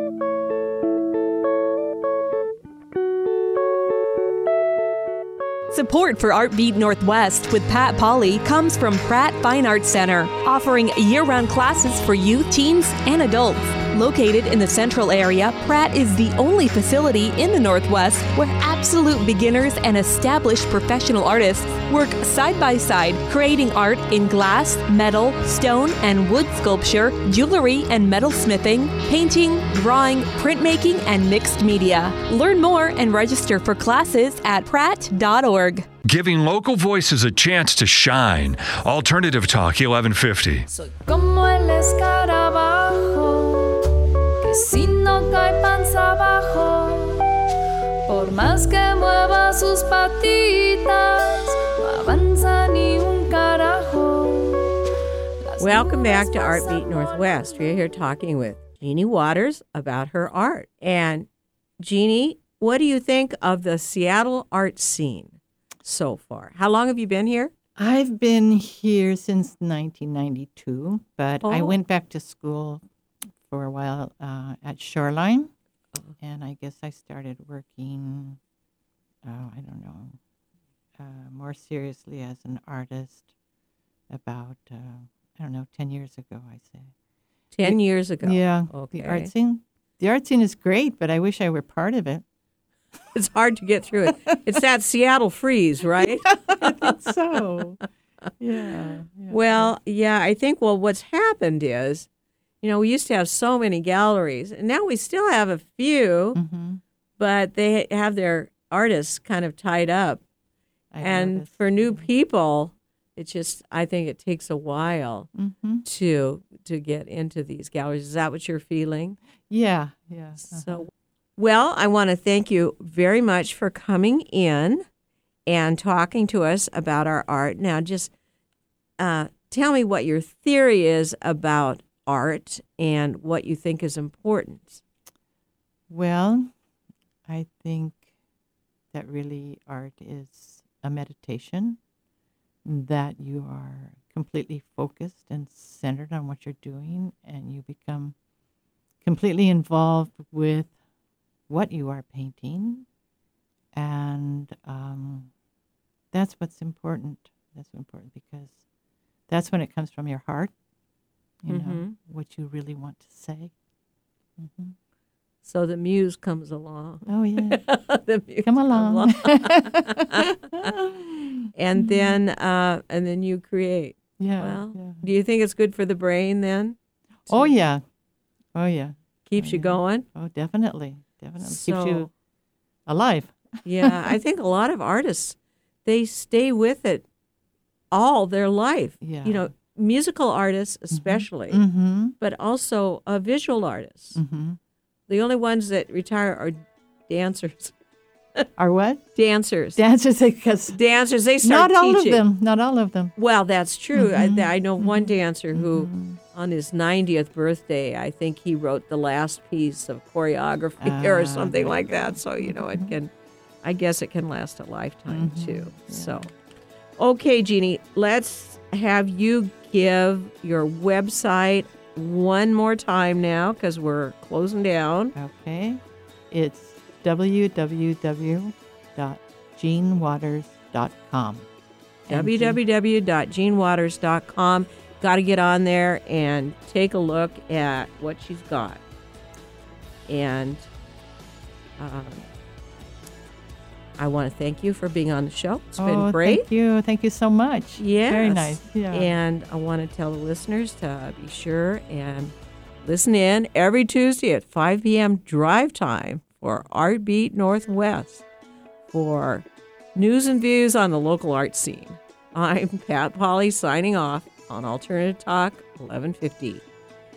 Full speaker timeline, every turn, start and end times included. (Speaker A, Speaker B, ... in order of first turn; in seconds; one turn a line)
Speaker A: 5.7-35.9
Speaker B: 36.0-40.7
Speaker C: 40.7-43.9
Speaker C: 44.4-47.2
Speaker C: 48.1-54.7
Speaker C: 55.5-57.2
Speaker D: 55.6-61.3
Speaker D: 61.8-67.5
Speaker E: 67.8-72.8
Speaker D: 71.4-71.8
Speaker E: 73.4-75.5
Speaker E: 76.2-78.4
Speaker E: 79.2-80.2
Speaker E: 81.0-83.3
Speaker E: 84.1-86.9
Speaker D: 87.5-89.3
Speaker E: 87.6-92.2
Speaker D: 93.1-97.0
Speaker E: 94.0-94.3
Speaker E: 96.2-97.8
Speaker E: 98.4-99.8
Speaker D: 99.3-102.1
Speaker D: 102.6-106.4
Speaker E: 106.3-106.8
Speaker D: 107.2-110.2
Speaker E: 110.9-112.1
Speaker D: 111.0-115.3
Speaker E: 115.3-115.8
Speaker D: 115.8-119.2
Speaker E: 119.5-120.8
Speaker D: 120.4-124.8
Speaker D: 125.5-128.1
Speaker D: 129.0-134.8
Speaker E: 135.9-136.5
Speaker E: 137.2-138.0
Speaker E: 138.9-141.8
Speaker E: 142.6-148.2
Speaker E: 149.0-150.7
Speaker E: 151.5-152.9
Speaker E: 153.7-155.3
Speaker E: 156.1-158.6
Speaker E: 159.3-160.5
Speaker E: 161.4-163.5
Speaker D: 161.5-161.9
Speaker E: 164.4-164.7
Speaker D: 165.4-170.3
Speaker E: 167.0-167.6
Speaker E: 168.4-172.2
Speaker D: 171.5-176.8
Speaker E: 174.2-175.0
Speaker E: 177.3-177.8
Speaker E: 178.5-182.1
Speaker D: 179.3-180.1
Speaker D: 181.4-182.1
Speaker E: 182.9-184.1
Speaker D: 183.6-187.0
Speaker D: 187.9-191.6
Speaker E: 189.0-189.5
Speaker E: 190.9-192.1
Speaker D: 192.2-194.2
Speaker E: 194.1-194.6
Speaker D: 195.1-197.7
Speaker E: 198.6-199.0
Speaker D: 199.1-199.8
Speaker E: 199.7-200.8
Speaker D: 200.7-202.2
Speaker E: 201.4-203.1
Speaker D: 203.2-213.1
Speaker E: 203.9-206.2
Speaker E: 210.8-212.9
Speaker D: 213.6-216.3
Speaker E: 215.1-216.3
Speaker D: 217.0-225.1
Speaker E: 225.1-231.5
Speaker E: 232.1-232.6
Speaker D: 232.1-238.8
Speaker D: 240.1-240.7
Speaker D: 241.8-242.3
Speaker D: 244.0-246.4
Speaker E: 245.8-249.1
Speaker D: 247.8-258.2
Speaker D: 258.9-266.6